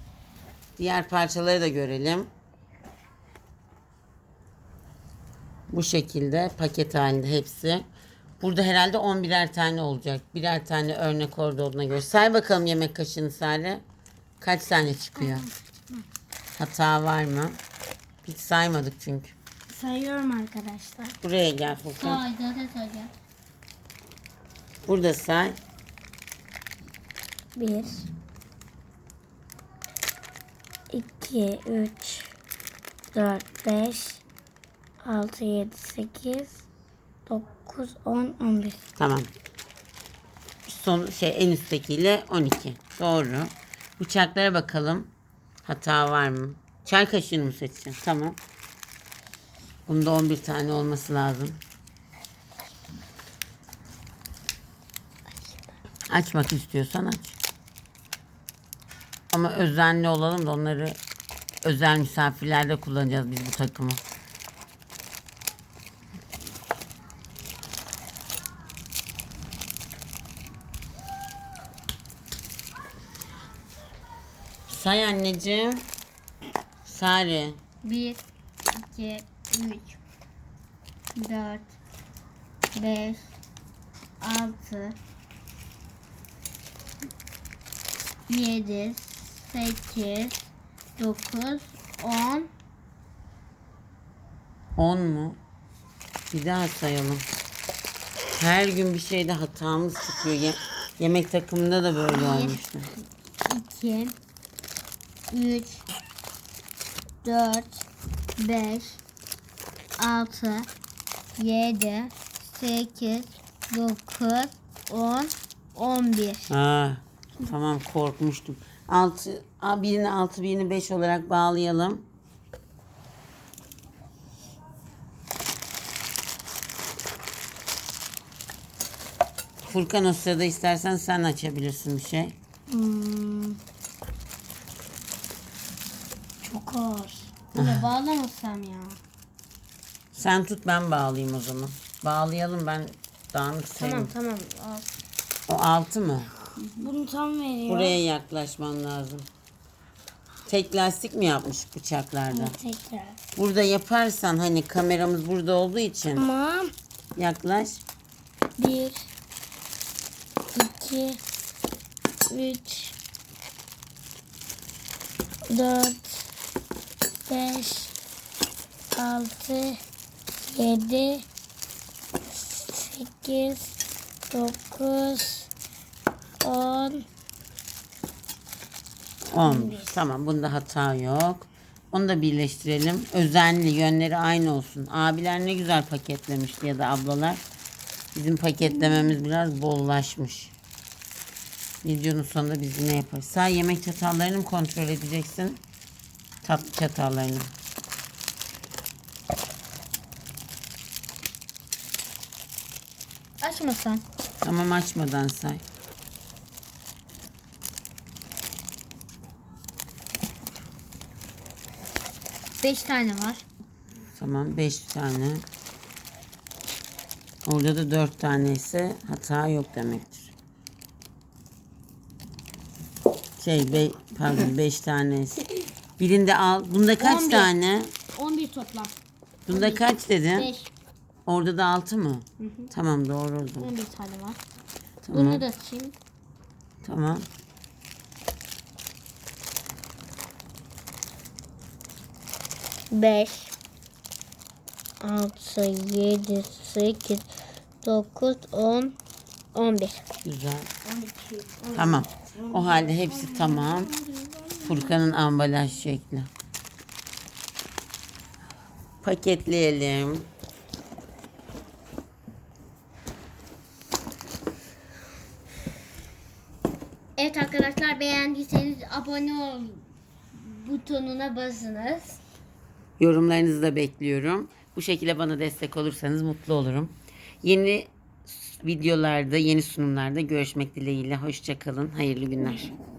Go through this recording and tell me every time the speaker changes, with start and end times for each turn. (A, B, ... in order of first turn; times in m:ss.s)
0:00.8-0:02.3 A
0:05.7-0:07.8 A
0:08.4-0:13.8 A
0:14.4-0:15.5 A
0:16.5-0:17.6 A
0:18.2-0:19.4 A
0:19.7-0:21.2 B
0:21.2-0:22.2 A
0:21.8-0:23.1 C
0:24.9-0:25.6 A
0:27.6-0:28.1 B
0:30.9-0:32.3 B
0:33.1-0:34.2 B
0:35.0-0:36.6 B
0:37.3-0:38.8 B
0:39.0-0:39.3 A
0:40.7-0:45.1 A
0:45.6-0:48.4 A
0:49.9-0:51.6 A
0:56.1-0:57.4 A
0:59.3-1:01.0 A
1:01.6-1:04.0 A
1:14.7-1:15.8 A
1:16.8-1:17.6 A
1:17.8-1:18.2 C
1:18.7-1:20.0 C
1:21.2-1:21.8 C
1:22.8-1:23.3 C
1:24.2-1:25.0 C
1:28.3-1:32.5 C
1:34.8-1:35.4 A
1:36.3-1:37.2 A
1:38.4-1:42.9 A
1:42.1-1:44.2 C
1:45.3-1:45.9 C
1:47.2-1:47.8 C
1:48.4-1:49.0 C
1:50.0-1:50.7 C
1:51.4-1:56.5 C
1:56.5-2:02.0 A
2:09.7-2:12.4 A
2:12.7-2:13.6 B
2:16.4-2:17.3 B
2:17.5-2:19.0 C
2:17.6-2:17.9 A
2:20.2-2:24.1 A
2:23.8-2:24.9 C
2:25.5-2:26.3 A
2:26.6-2:26.9 C
2:26.8-2:28.0 B
2:27.7-2:29.3 A
2:30.5-2:32.6 A
2:32.3-2:33.2 B
2:33.4-2:36.3 A
2:36.2-2:36.7 B
2:37.2-2:37.8 A
2:38.6-2:39.1 B
2:40.6-2:41.2 B
2:42.3-2:43.0 B
2:45.5-2:46.3 B
2:47.3-2:48.0 B
2:48.9-2:49.8 B
2:50.4-2:51.2 B
2:52.3-2:53.8 B
2:54.3-2:55.5 B
2:56.4-2:57.1 B
2:59.3-3:07.4 A
2:59.4-3:00.0 B
3:08.2-3:10.5 A
3:11.8-3:15.6 A
3:16.4-3:17.5 A
3:23.4-3:24.0 C
3:24.4-3:25.6 A
3:32.6-3:33.4 C
3:34.1-3:35.4 A
3:37.4-3:40.3 A
3:43.4-3:45.4 A
3:46.0-3:47.9 A
3:47.0-3:47.5 C
3:48.1-3:48.9 C
3:49.5-3:50.5 A
3:49.5-3:50.7 C
3:51.3-3:53.7 A
3:52.4-3:52.7 C
3:53.6-3:54.4 C
3:55.0-3:55.4 A
3:55.1-3:56.0 C
3:56.8-3:57.3 A
4:02.9-4:03.5 C
4:05.0-4:07.3 C
4:07.8-4:09.0 C
4:09.5-4:10.1 C
4:10.2-4:10.7 A
4:10.8-4:14.1 C
4:11.7-4:13.9 A
4:13.4-4:13.8 B
4:14.6-4:16.3 A
4:19.0-4:20.3 A
4:27.2-4:32.2 C
4:33.0-4:42.8 A